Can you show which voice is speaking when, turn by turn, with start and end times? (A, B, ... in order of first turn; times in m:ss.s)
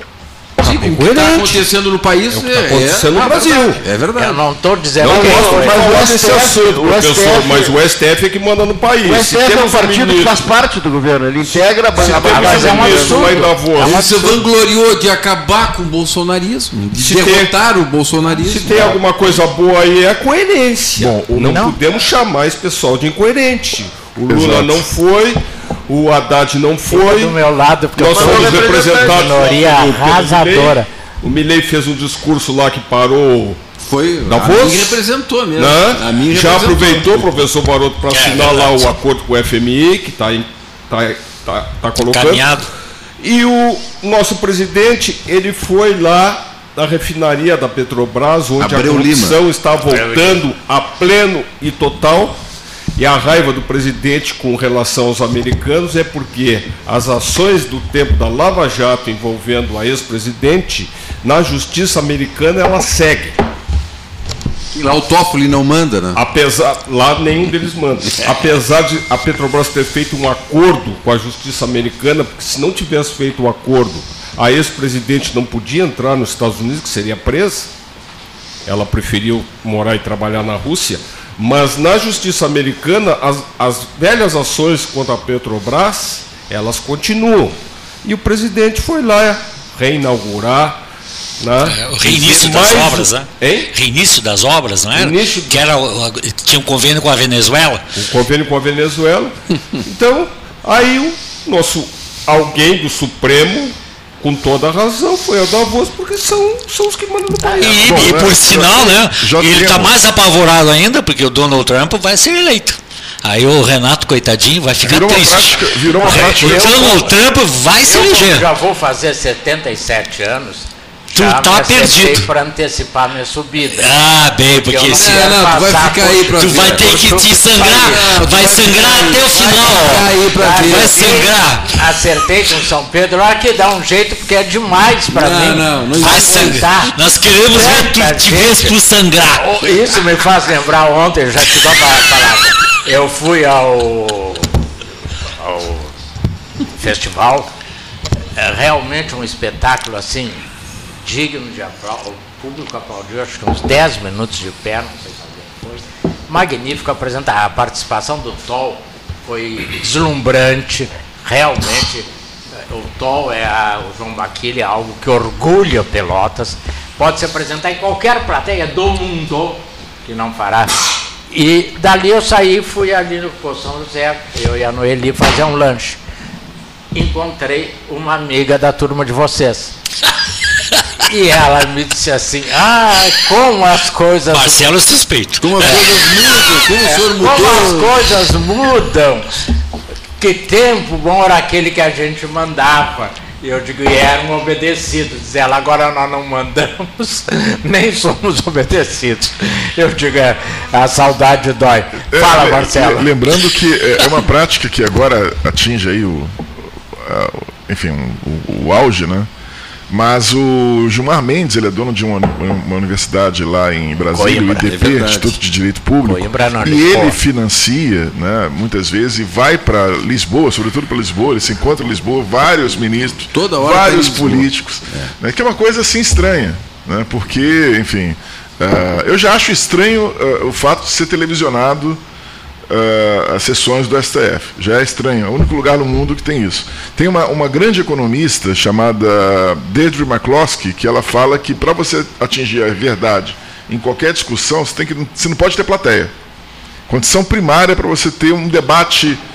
0:00.6-0:01.6 A
0:00.6-0:04.4 B
0:02.3-0:03.8 A
0:04.1-0:06.0 C
0:05.0-0:10.5 A
0:05.0-0:07.8 D
0:09.0-0:13.6 D
0:11.5-0:14.4 A
0:12.0-0:14.1 C
0:13.8-0:19.0 B
0:17.0-0:17.5 A
0:18.4-0:27.4 A
0:21.0-0:21.6 E
0:21.4-0:21.7 C
0:24.3-0:24.8 E
0:26.9-0:30.9 C
0:28.0-0:33.6 A
0:28.0-0:29.5 D
0:33.8-0:37.4 B
0:34.2-0:35.0 A
0:35.6-0:42.6 A
0:38.1-0:38.9 F
0:42.1-0:42.7 F
0:43.2-0:52.4 A
0:48.6-0:49.4 B
0:49.9-0:50.4 C
0:53.0-1:03.4 A
1:04.7-1:06.2 B
1:06.1-1:17.7 A
1:18.6-1:30.8 A
1:31.4-1:33.7 A
1:31.6-1:37.8 F
1:34.9-1:35.6 A
1:38.0-1:48.2 A
1:47.6-1:58.5 F
1:47.8-1:49.9 E
1:54.8-1:57.1 E
1:56.0-1:57.1 C
1:57.8-2:04.0 C
2:01.1-2:02.3 F
2:03.7-2:05.3 F
2:04.5-2:07.3 C
2:04.9-2:11.2 B
2:06.4-2:11.7 F
2:10.3-2:16.9 C
2:15.1-2:16.6 B
2:16.0-2:19.6 F
2:17.5-2:18.8 C
2:19.3-2:24.5 C
2:25.4-2:25.9 C
2:26.8-2:27.5 C
2:28.4-2:30.4 C
2:31.0-2:42.1 C
2:42.7-2:56.0 C
2:56.9-2:59.7 C
3:01.0-3:04.7 C
3:04.3-3:05.9 F
3:05.4-3:07.9 B
3:06.8-3:09.4 C
3:10.2-3:23.1 C
3:22.1-3:29.3 E
3:29.9-3:52.0 E
3:34.1-3:34.6 C
3:34.6-3:35.4 B
3:36.0-3:37.2 C
3:43.3-3:45.1 B
3:52.7-4:06.1 E
4:06.9-4:09.2 E